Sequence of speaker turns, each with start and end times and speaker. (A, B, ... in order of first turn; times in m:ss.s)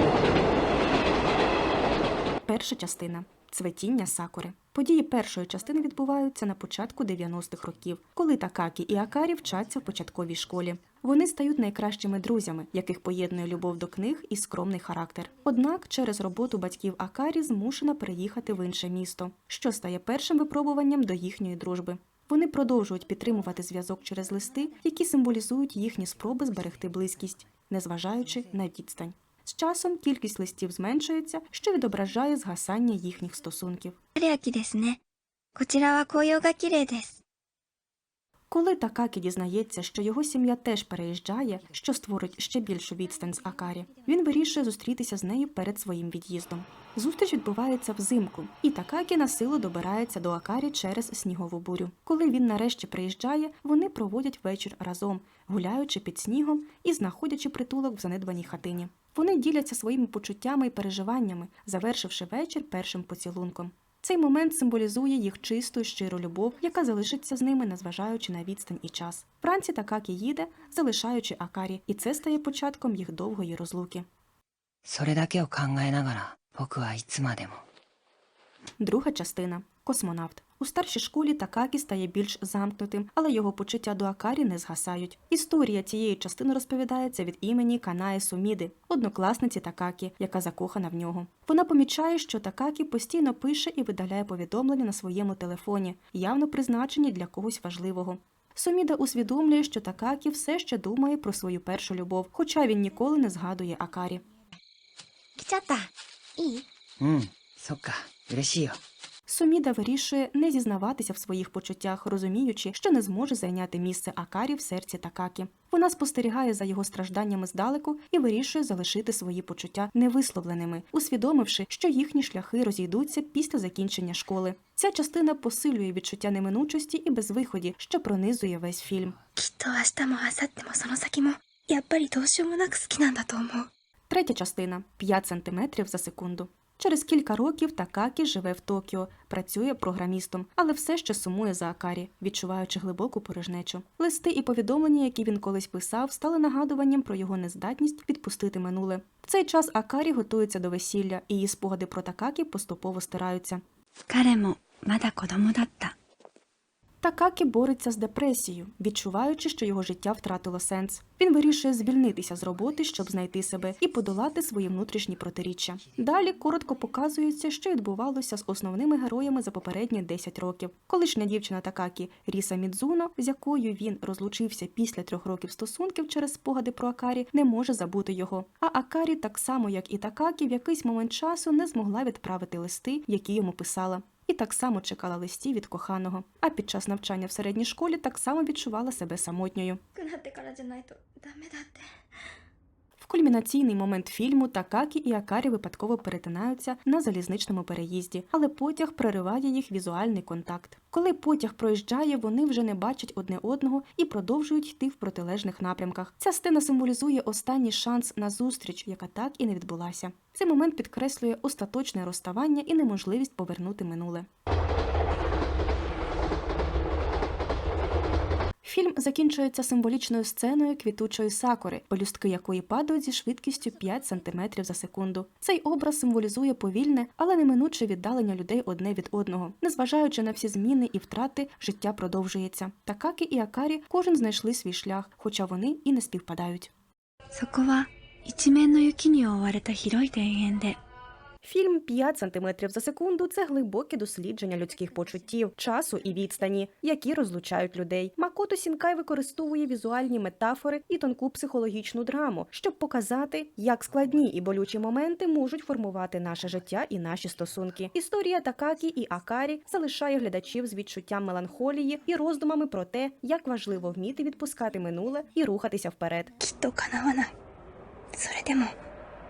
0:00.2-0:00.9 A
0:02.4-0:34.0 B
0:34.2-0:35.0 A
0:35.6-0:37.2 A
0:38.5-1:14.0 B
1:14.8-1:17.6 C
1:18.8-1:44.2 B
1:45.4-1:46.6 A
1:47.0-1:48.8 C
1:49.3-2:09.2 B
2:09.4-2:13.7 A
2:14.1-2:33.6 B
2:34.1-2:35.9 A
2:37.0-3:09.8 B
3:10.0-3:11.9 A
3:13.0-3:34.3 B
3:38.6-3:56.7 B
3:57.3-4:00.8 A
4:01.4-4:26.3 B
4:26.4-4:27.3 A
4:28.1-4:28.7 A